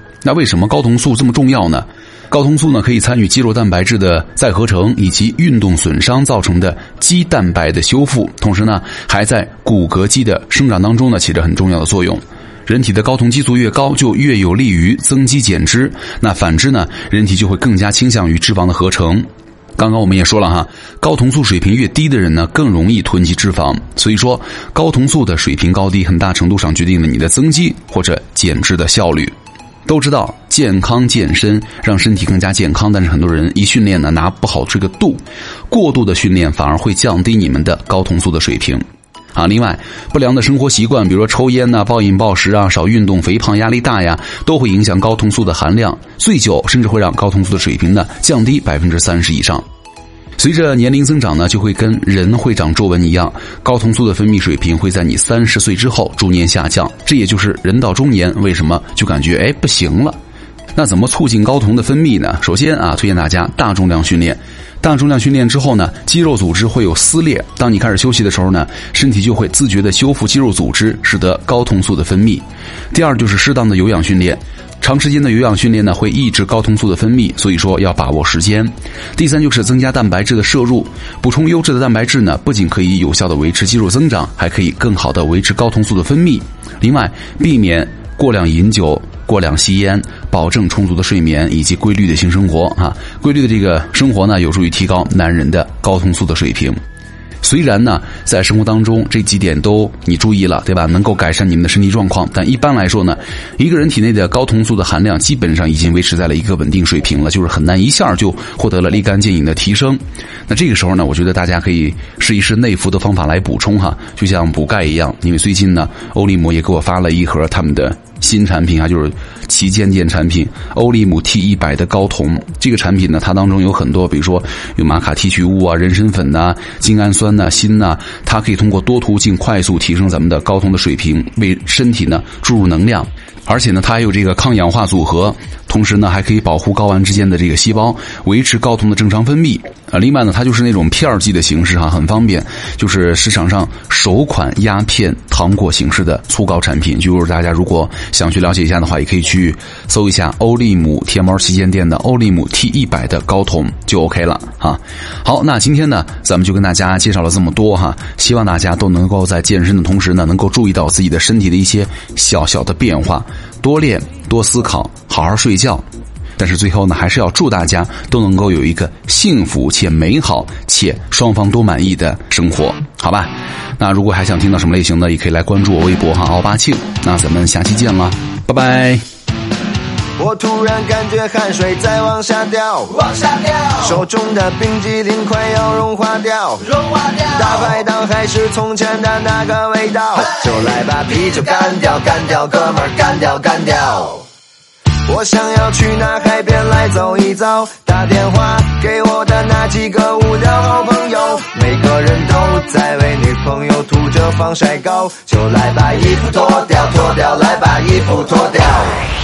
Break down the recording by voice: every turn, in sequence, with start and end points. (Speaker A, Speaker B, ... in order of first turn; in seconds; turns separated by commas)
Speaker A: 0.2-29.3, Speaker A: 29.9-38.8, Speaker A: 39.4-49.6, Speaker A: 50.4-60.2, Speaker A: 60.8-96.8, Speaker A: 97.4-165.8, Speaker A: 166.4-179.0, Speaker B: 180.2-183.0, Speaker C: 183.0-183.8, Speaker B: 183.8-186.7, Speaker C: 186.8-187.4, Speaker B: 187.3-194.2, Speaker C: 191.9-194.1, Speaker B: 195.1-209.0